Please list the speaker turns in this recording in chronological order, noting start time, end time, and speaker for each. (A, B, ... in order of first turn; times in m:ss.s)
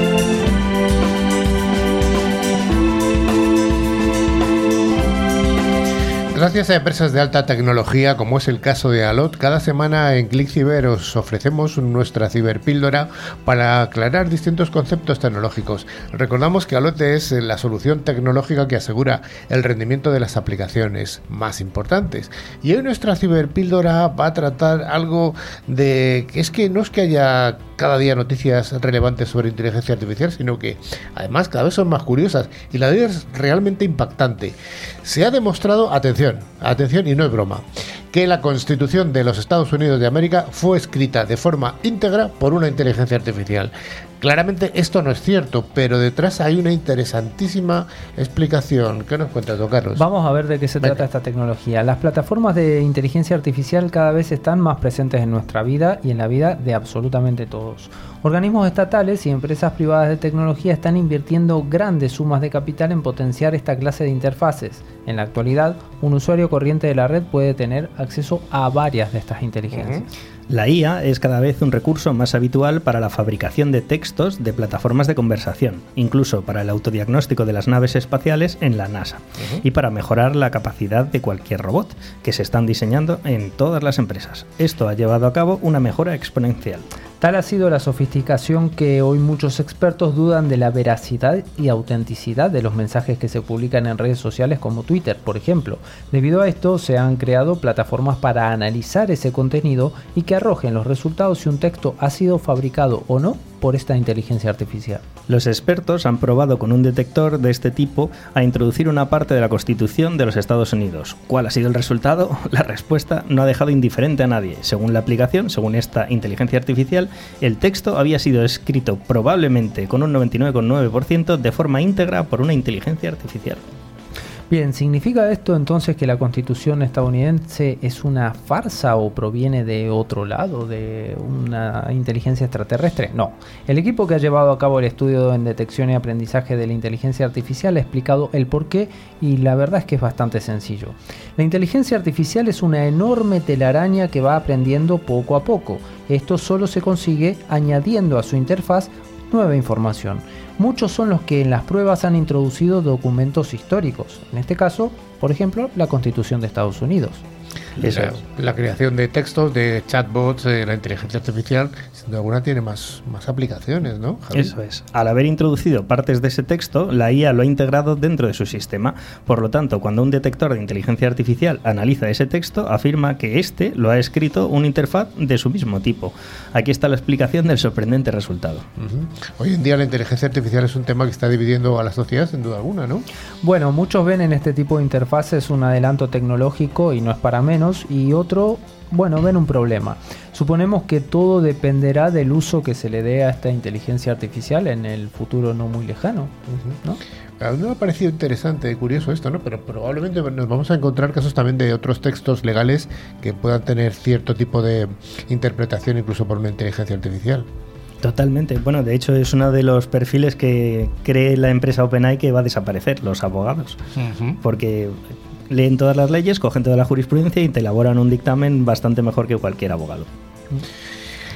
0:06.3-0:50.0 A
0:50.0-1:10.1 B
1:09.7-1:10.0 A
1:10.5-1:26.9 C
1:27.2-1:45.0 B
1:45.3-2:03.6 C
2:04.5-2:37.2 B
2:37.8-2:38.1 C
2:37.8-2:44.5 A
2:44.3-2:58.6 C
2:58.8-3:03.0 A
3:03.4-3:17.0 B
3:16.5-3:16.8 A
3:17.4-3:27.5 A
3:28.0-3:33.8 C
3:34.0-3:34.4 A
3:34.4-3:35.0 C
3:35.5-3:40.1 C